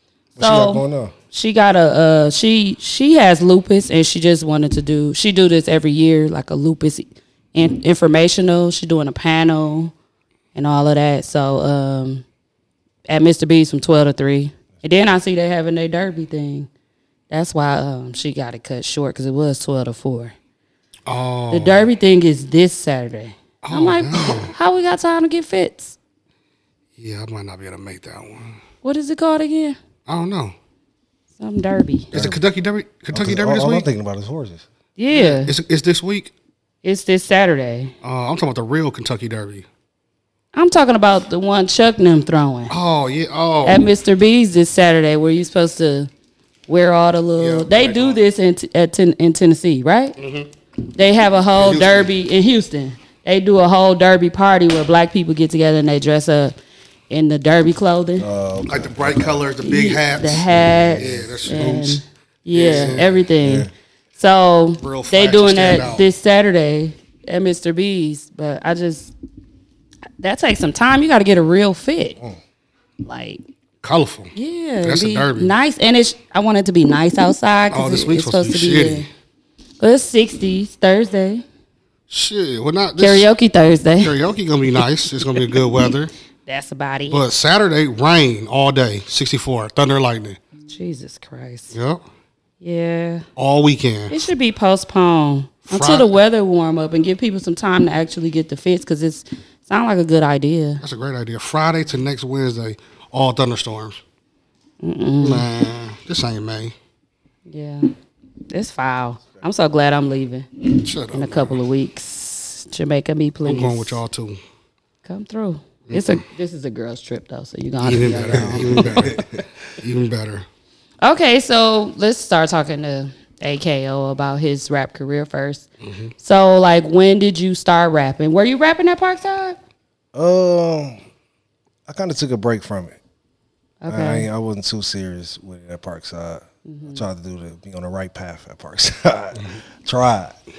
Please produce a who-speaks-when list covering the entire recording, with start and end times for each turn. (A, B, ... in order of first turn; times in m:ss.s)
0:00.4-0:01.1 A
0:00.4-0:09.9 B
0:10.5-0:12.2 B
0:13.1-0:16.7 B
0:17.3-0:20.3 B
0:21.1-0:21.8 C
0:21.5-0:26.0 B
0:23.6-0:24.5 C
0:27.0-0:28.6 C
0:28.8-0:29.8 B
0:30.1-0:30.5 C
0:31.4-0:32.1 B
0:32.1-0:33.9 C
0:32.1-0:32.4 A
0:33.1-0:34.6 A
0:35.0-0:35.5 B
0:35.1-0:36.3 C
0:36.8-0:37.9 B
0:38.0-0:39.6 C
0:40.5-0:42.7 B
0:42.7-0:43.8 C
0:43.6-0:46.1 B
0:46.7-0:50.2 B
0:47.4-0:48.2 C
0:50.2-0:50.5 C
0:50.9-0:56.5 B
0:51.6-0:52.1 C
0:57.1-0:58.3 B
0:58.2-0:59.4 A
0:58.7-1:02.0 C
0:59.6-1:09.1 B
1:00.4-1:02.0 A
1:02.5-1:03.2 C
1:02.6-1:03.7 A
1:04.8-1:06.1 C
1:10.2-1:12.2 B
1:13.0-1:13.4 B
1:13.8-1:15.5 C
1:14.3-1:19.1 B
1:17.7-1:19.1 C
1:19.8-1:21.4 B
1:22.1-1:23.3 C
1:23.0-1:24.1 B
1:24.0-1:26.1 C
1:26.4-1:27.2 B
1:27.1-1:30.4 C
1:30.7-1:31.7 B
1:31.7-1:32.0 C
1:32.6-1:33.2 B
1:33.4-1:34.2 C
1:34.1-1:40.8 B
1:35.7-1:36.1 C
1:40.8-1:44.0 C
1:44.8-1:45.4 B
1:45.2-1:46.7 C
1:47.5-1:47.8 B
1:48.5-1:54.0 B
1:50.7-1:51.6 C
1:53.4-1:54.4 C
1:55.0-1:59.1 B
1:55.9-1:56.2 C
1:57.8-1:59.2 C
1:58.2-1:59.4 A
1:59.8-2:00.4 C
2:01.0-2:05.7 B
2:05.8-2:06.1 C
2:06.2-2:09.6 B
2:10.1-2:11.0 A
2:11.9-2:12.9 A
2:13.8-2:14.3 B
2:13.9-2:20.4 A
2:16.7-2:17.0 B